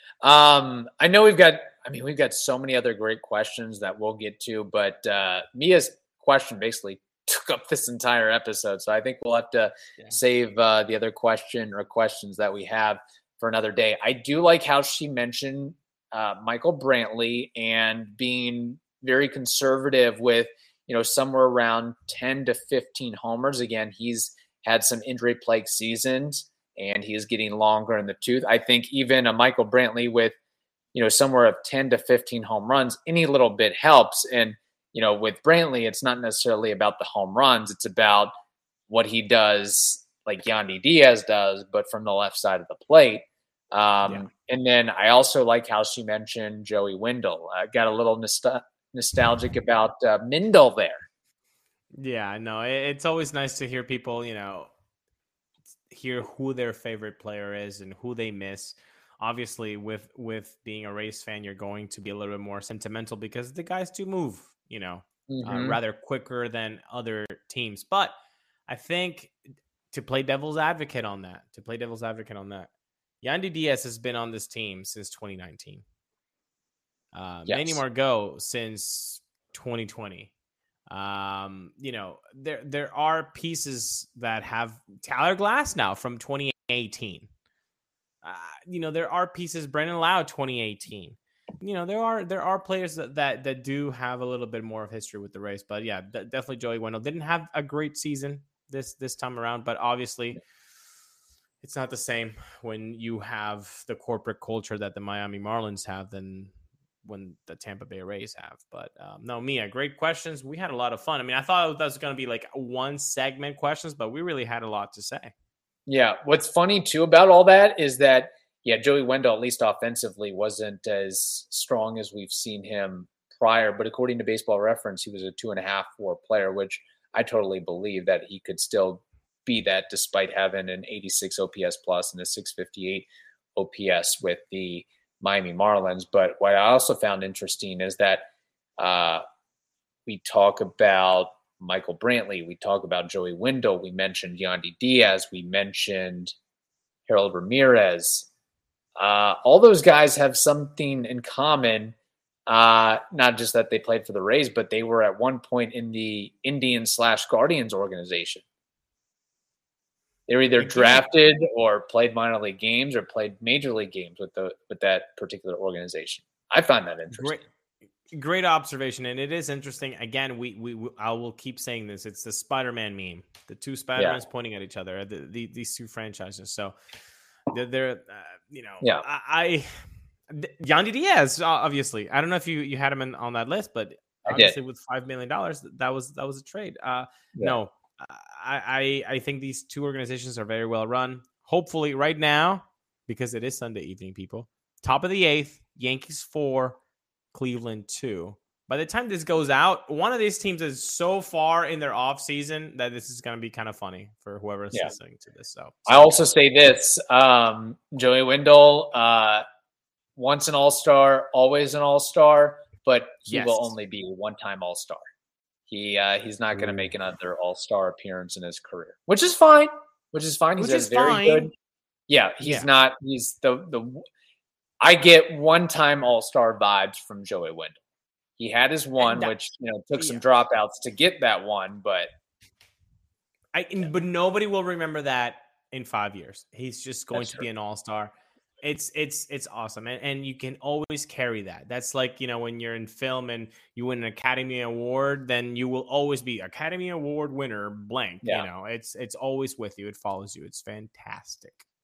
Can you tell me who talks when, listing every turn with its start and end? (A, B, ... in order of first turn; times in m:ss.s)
0:00.2-0:30.3 A
0:30.9-0:38.3 A
0:38.9-0:51.0 A
0:51.9-0:54.7 B
0:55.9-1:08.1 B
1:05.3-1:05.8 A
1:08.7-1:09.4 B
1:09.9-1:12.7 B
1:13.2-1:15.8 B
1:17.1-1:20.3 B
1:17.5-1:17.8 A
1:20.9-1:27.3 B
1:28.2-1:40.4 B
1:41.6-1:55.3 B
1:55.9-2:18.2 A
2:18.8-2:19.2 A
2:20.1-2:26.3 A
2:27.1-2:28.3 A
2:29.0-2:31.9 A
2:32.5-2:38.4 A
2:40.3-2:47.4 A
2:40.6-2:41.0 B
2:47.1-2:47.4 B
2:48.1-2:56.8 B
2:54.0-2:54.2 A
2:57.5-3:16.8 B
2:58.8-2:59.0 A
3:04.2-3:04.6 A
3:17.3-3:26.2 B
3:25.9-3:29.4 A
3:30.2-3:35.0 A
3:33.3-3:33.7 B
3:35.7-3:41.5 A
3:40.6-3:41.5 B
3:42.1-3:44.0 A
3:42.4-3:42.7 B
3:44.8-3:47.8 A
3:48.4-3:52.1 A
3:49.0-3:49.4 B
3:53.5-4:11.6 B
3:57.1-3:57.5 A